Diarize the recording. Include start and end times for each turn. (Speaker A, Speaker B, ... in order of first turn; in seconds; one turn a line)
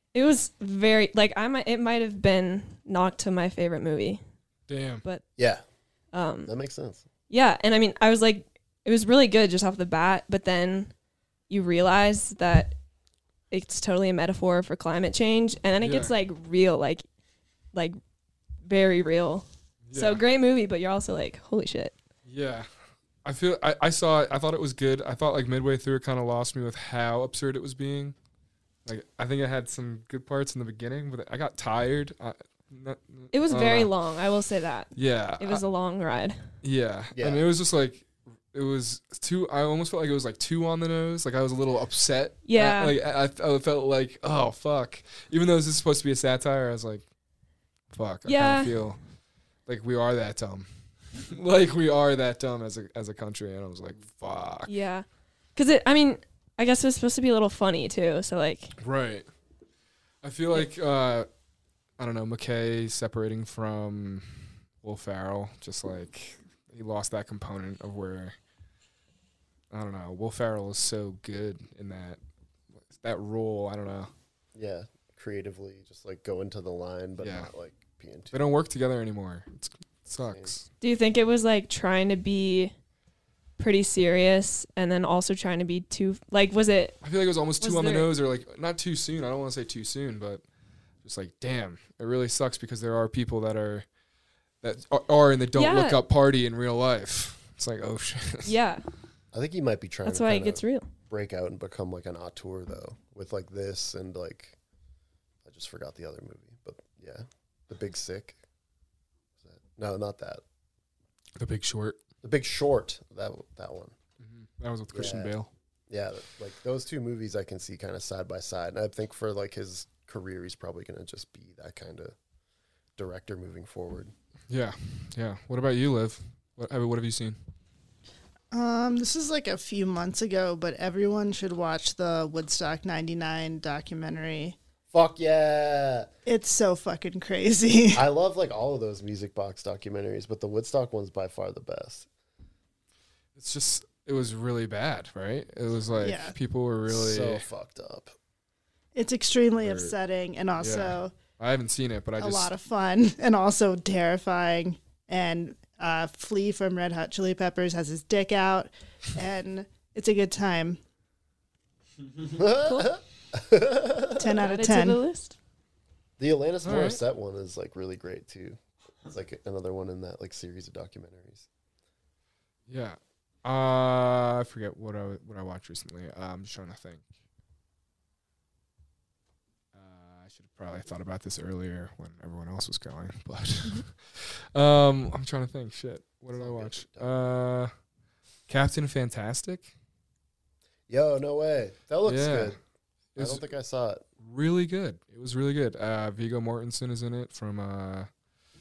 Speaker A: 0.1-4.2
Speaker B: 4.7-5.0
Speaker C: 5.4-5.6
Speaker A: 6.1-6.5
Speaker C: 6.5-7.0
Speaker A: 7.3-10.9
Speaker A: 11.5-12.7
Speaker A: 13.5-17.0
Speaker B: 15.8-16.1
Speaker A: 18.6-21.9
Speaker B: 19.9-20.2
Speaker B: 22.2-22.7
Speaker B: 23.2-28.1
Speaker B: 28.8-33.9
Speaker A: 33.3-36.5
Speaker B: 34.9-35.6
Speaker B: 36.6-47.0
Speaker C: 37.1-37.4
Speaker A: 42.4-42.9
Speaker B: 47.9-49.0
Speaker A: 48.2-48.7
Speaker B: 49.7-54.7
Speaker A: 54.7-58.8
Speaker B: 58.8-59.3
Speaker B: 60.2-61.3
Speaker B: 62.0-68.3
Speaker B: 69.7-72.2
Speaker B: 72.8-74.1
Speaker C: 74.5-78.4
Speaker B: 77.2-77.5
Speaker B: 78.3-80.7
Speaker C: 80.3-80.5
Speaker A: 80.8-82.7
Speaker A: 83.6-87.0
Speaker B: 87.0-90.4
Speaker A: 87.6-88.1
Speaker B: 91.0-93.9
Speaker B: 94.6-98.5
Speaker A: 95.5-96.0
Speaker A: 98.4-98.8
Speaker C: 99.3-104.5
Speaker A: 100.0-100.9
Speaker C: 105.4-108.4
Speaker C: 109.4-110.4
Speaker B: 111.4-112.0
Speaker C: 112.2-113.9
Speaker B: 114.2-115.5
Speaker C: 114.9-115.3
Speaker C: 115.9-122.1
Speaker C: 123.0-124.1
Speaker B: 124.5-127.4
Speaker D: 128.5-134.6
Speaker C: 134.9-136.1
Speaker D: 136.2-138.0
Speaker C: 137.9-142.1
Speaker B: 143.3-147.4
Speaker D: 146.0-146.3
Speaker C: 146.9-148.1
Speaker D: 148.9-151.1
Speaker B: 149.6-149.9
Speaker B: 150.6-152.5
Speaker D: 152.2-160.8
Speaker C: 162.3-164.4
Speaker A: 162.6-162.9
Speaker D: 164.2-165.0
Speaker A: 164.4-165.3
Speaker C: 166.2-171.5
Speaker B: 166.6-167.0
Speaker B: 172.7-177.1
Speaker B: 179.7-187.7
Speaker C: 186.3-187.1
Speaker B: 188.5-189.7
Speaker C: 190.9-192.6
Speaker B: 192.0-192.5
Speaker B: 193.1-193.4
Speaker C: 193.2-194.0
Speaker B: 194.2-198.1